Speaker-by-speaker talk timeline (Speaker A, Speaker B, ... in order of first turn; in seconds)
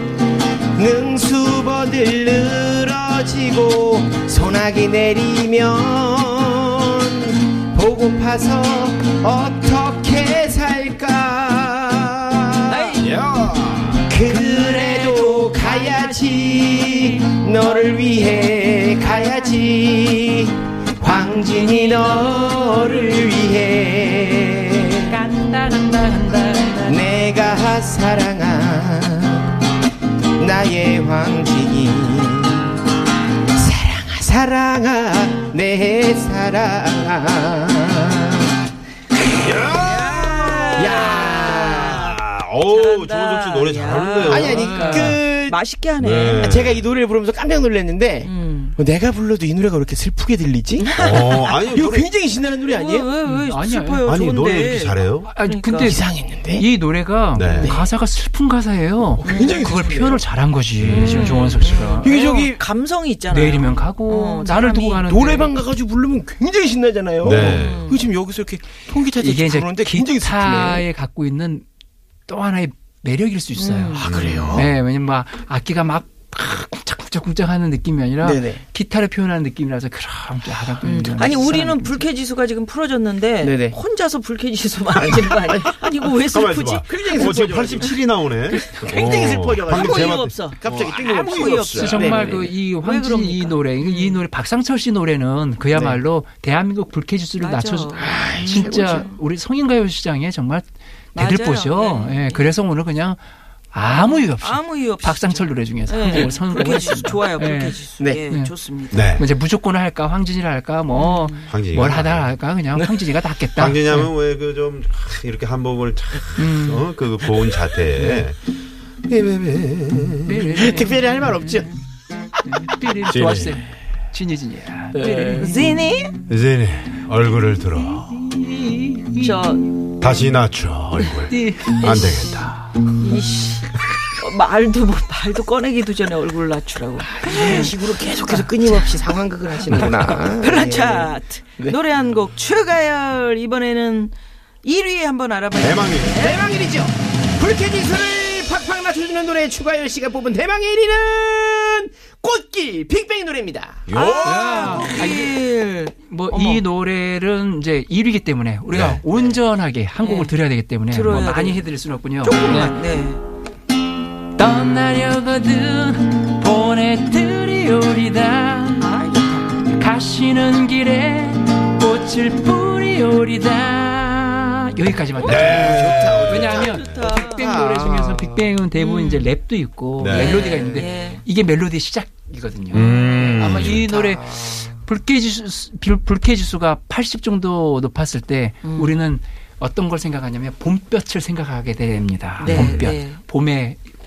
Speaker A: 0.8-12.9, 14.1-25.1, 26.9-29.5, 30.4-32.7, 33.6-38.5, 40.8-42.0, 44.3-45.6, 46.3-51.0, 51.6-53.1, 55.8-56.7, 57.6-57.9, 59.2-60.2, 62.0-62.6, 65.1-70.9, 74.0-74.7, 78.2-78.6, 83.4-83.8, 85.0-85.8, 86.9-88.0, 88.5-92.5, 95.7-96.0, 98.0-99.1, 112.8-113.0, 120.5-121.7, 124.9-125.5, 137.0-141.8, 146.2-153.8, 175.2-178.5, 180.4-180.8, 183.3-184.8
Speaker B: 12.7-13.1, 14.2-14.8, 21.4-22.9, 39.7-46.5, 48.2-48.8, 50.9-51.7, 52.7-56.0, 59.2-59.7, 60.9-65.1, 67.3-68.1, 73.6-74.1, 80.8-87.9, 89.7-94.2, 97.4-99.2, 101.2-102.6, 103.8-109.1, 110.9-111.5, 125.2-126.2, 129.2-129.8, 133.0-138.7, 139.7-146.4, 153.9-156.7, 160.0-160.3, 160.9-161.7, 162.2-163.2, 168.7-169.6, 176.5-177.6, 178.8-179.3, 180.1-181.2, 182.7-183.5, 188.6-189.0, 192.4-193.2
Speaker C: 13.0-14.2, 39.2-45.1, 46.0-46.9, 51.0-52.1, 54.1-55.3, 57.4-57.8, 60.8-61.4, 67.2-67.9, 74.0-74.6, 86.2-92.0, 108.9-109.2, 111.5-112.3, 113.6-118.4, 119.1-120.5, 123.1-123.6, 126.3-128.2, 130.0-132.5, 145.6-146.2, 153.9-155.1, 158.7-159.0, 175.2-177.2, 180.0-180.4, 182.7-183.9, 192.5-192.9
Speaker D: 14.5-17.1, 25.1-27.1, 44.4-45.2, 53.3-54.1, 55.2-62.2, 63.3-65.5, 69.2-71.7, 72.3-82.0, 91.7-103.2, 103.7-108.5, 109.2-114.1, 116.4-116.9, 120.3-121.7, 122.4-125.7, 128.0-129.5, 131.1-132.8, 137.2-137.7, 154.2-155.4, 156.0-162.8, 164.4-168.9, 169.7-193.8